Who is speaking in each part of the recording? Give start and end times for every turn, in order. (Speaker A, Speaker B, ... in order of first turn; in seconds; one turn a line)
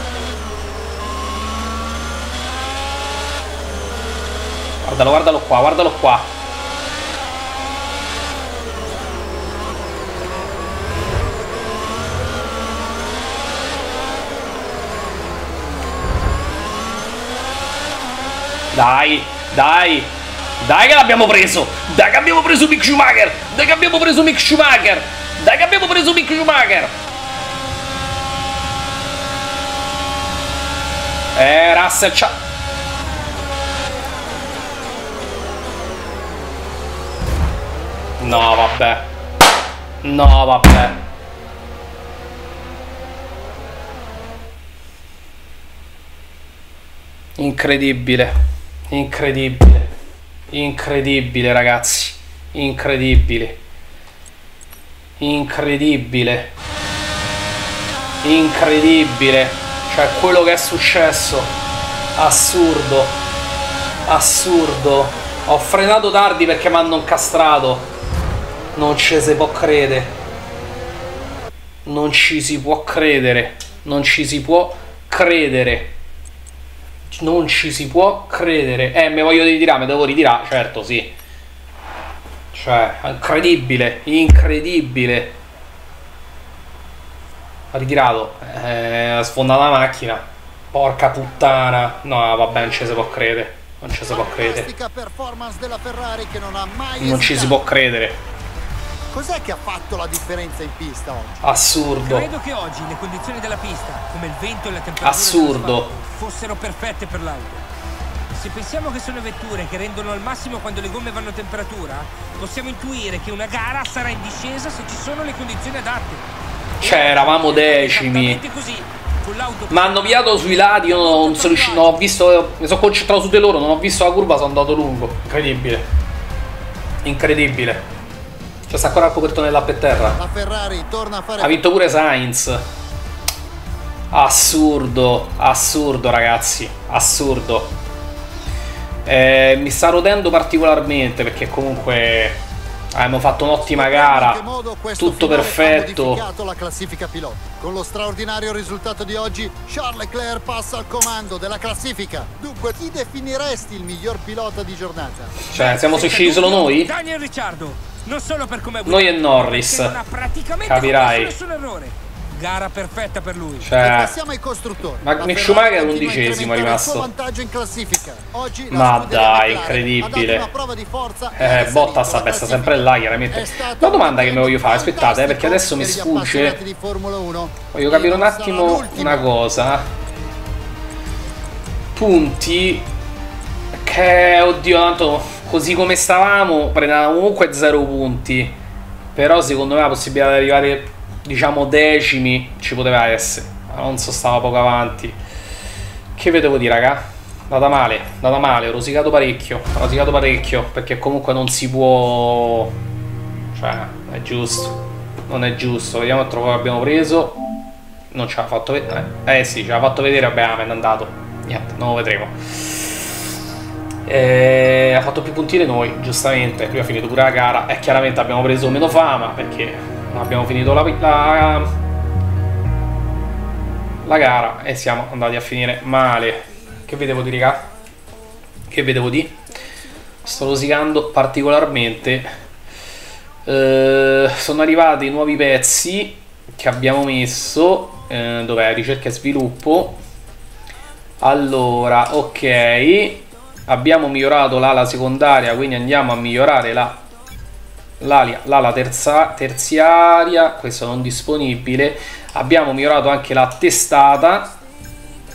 Speaker A: 4.8-6.3
Speaker A: 18.7-26.9
Speaker A: 31.3-32.3
Speaker A: 38.2-39.1
Speaker A: 40.0-41.0
Speaker A: 47.4-48.4
Speaker A: 48.9-49.9
Speaker A: 50.5-53.6
Speaker A: 55.2-56.5
Speaker A: 58.2-61.5
Speaker A: 62.1-63.2
Speaker A: 64.1-67.9
Speaker A: 68.7-70.1
Speaker A: 71.8-75.9
Speaker A: 77.1-81.1
Speaker A: 82.5-85.4
Speaker A: 87.7-94.7
Speaker B: 94.1-97.6
Speaker A: 97.0-98.2
Speaker B: 99.1-101.4
Speaker A: 101.4-102.3
Speaker C: 102.0-107.6
Speaker A: 105.0-105.9
Speaker C: 108.3-116.3
Speaker C: 116.8-122.1
Speaker A: 116.8-118.4
Speaker A: 119.7-125.8
Speaker A: 127.0-127.8
Speaker A: 128.7-130.2
Speaker B: 130.2-131.6
Speaker A: 131.4-132.6
Speaker A: 134.1-137.7
Speaker A: 139.1-142.4
Speaker A: 142.9-144.4
Speaker B: 143.6-155.5
Speaker A: 145.0-146.2
Speaker A: 155.4-156.9
Speaker C: 155.5-163.7
Speaker A: 158.8-159.9
Speaker A: 160.6-161.3
Speaker A: 163.6-164.1
Speaker B: 163.8-179.3
Speaker A: 165.0-167.1
Speaker A: 168.7-170.5
Speaker A: 171.3-176.6
Speaker A: 177.7-179.9
Speaker A: 181.9-182.9
Speaker A: 183.7-188.6
Speaker A: 189.1-195.2
Speaker A: 196.2-202.8
Speaker A: 203.5-207.4
Speaker A: 208.1-213.1
Speaker A: 214.1-221.7
Speaker A: 224.0-227.7
Speaker A: 228.7-229.4
Speaker A: 230.2-232.3
Speaker A: 233.4-240.0
Speaker A: 241.2-247.0
Speaker A: 248.0-254.5